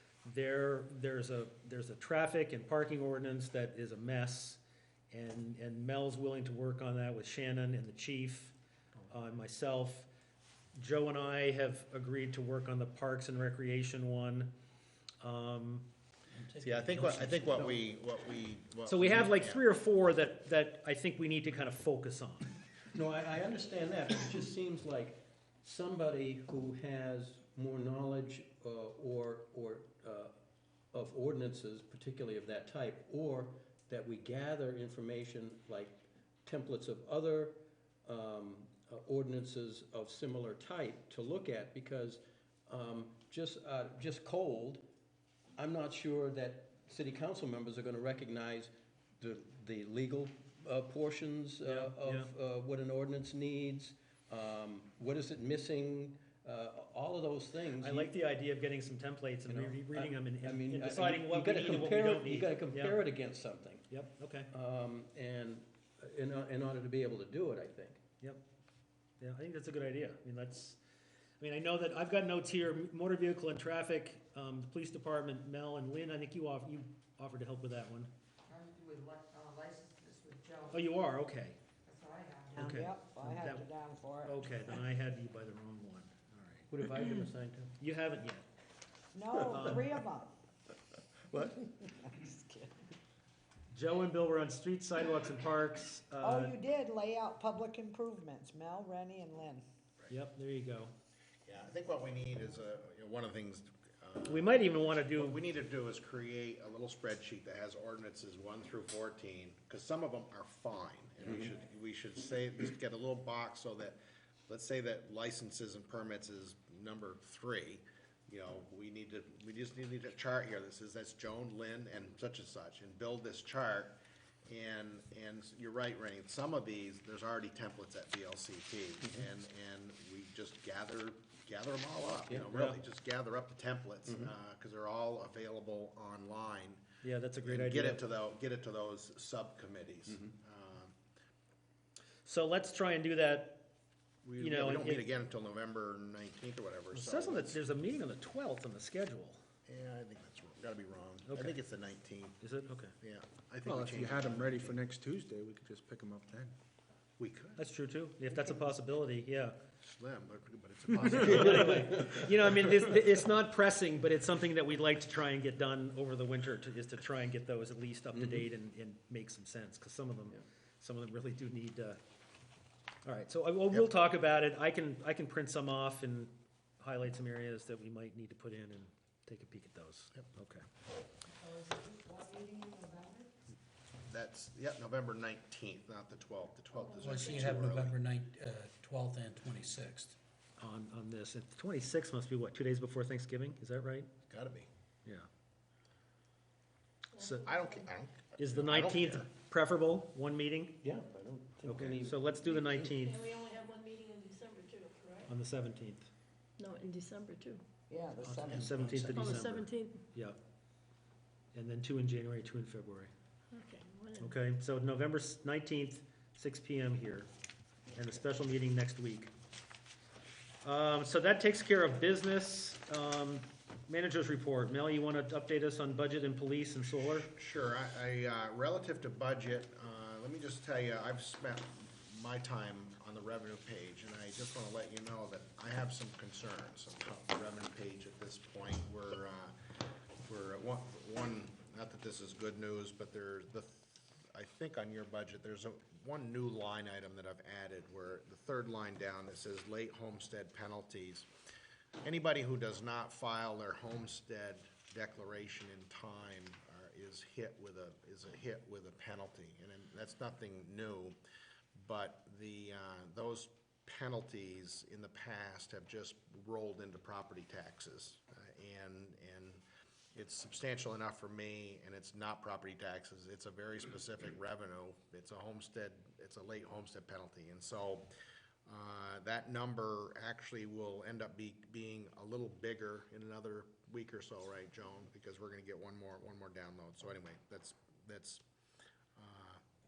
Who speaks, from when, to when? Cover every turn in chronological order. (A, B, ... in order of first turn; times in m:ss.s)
0:00.2-0:08.6 A
0:09.1-0:10.1 A
0:10.8-0:14.5 A
0:15.2-0:15.9 A
0:16.6-0:19.6 B
0:16.6-0:17.4 C
0:18.9-0:22.5 A
0:22.9-0:30.3 D
0:30.9-0:44.8 D
0:45.6-0:58.1 D
0:51.6-0:52.3 A
0:57.8-1:03.0 A
0:59.5-1:03.9 D
1:03.9-1:04.5 A
1:04.5-1:08.0 D
1:09.2-1:10.8 A
1:11.4-1:18.1 A
1:18.6-1:19.3 E
1:19.8-1:20.4 E
1:20.7-1:21.6 A
1:22.5-1:24.4 F
1:22.6-1:23.7 A
1:24.2-1:26.7 A
1:26.7-1:27.8 D
1:27.8-1:28.5 A
1:29.1-1:30.3 F
1:29.4-1:29.8 D
1:29.5-1:29.9 A
1:31.3-1:31.7 D
1:31.4-1:32.7 F
1:33.7-1:36.5 A
1:36.2-1:39.6 F
1:40.1-1:40.9 A
1:41.5-2:16.8 B
1:44.3-1:45.4 A
2:14.1-2:14.3 D
2:17.0-2:18.0 A
2:17.4-2:21.0 B
2:22.3-2:23.7 A
2:24.2-2:27.6 B
2:24.4-2:25.1 A
2:26.9-2:29.4 A
2:29.7-2:32.4 B
2:31.3-2:31.5 A
2:32.4-2:32.9 A
2:33.0-2:34.8 B
2:33.6-2:36.5 G
2:37.2-2:37.6 B
2:37.6-2:39.6 A
2:39.8-2:42.6 B
2:41.1-2:52.0 A
2:53.0-3:00.6 A
3:01.5-3:03.2 E
3:04.1-3:08.0 B
3:06.8-3:07.4 H
3:07.1-3:08.0 D
3:07.1-3:10.1 C
3:09.4-3:10.1 D
3:10.6-3:14.1 A
3:14.3-3:14.7 B
3:17.2-3:17.9 H
3:17.3-3:19.3 B
3:18.4-3:20.8 A
3:20.8-3:22.3 D
3:21.7-3:23.2 A
3:22.5-3:25.3 H
3:25.3-3:26.1 A
3:26.6-3:27.6 H
3:27.9-3:29.4 F
3:28.2-3:30.4 A
3:29.0-3:30.0 H
3:31.5-3:33.1 A
3:33.5-3:34.4 H
3:34.2-3:37.3 A
3:37.9-3:39.3 A
3:40.6-3:47.3 A
3:47.2-3:59.6 B
4:00.2-4:11.3 B
4:12.0-4:21.2 B
4:21.8-4:29.6 B
4:30.2-4:38.1 B
4:38.7-4:48.4 B
4:49.2-4:49.6 B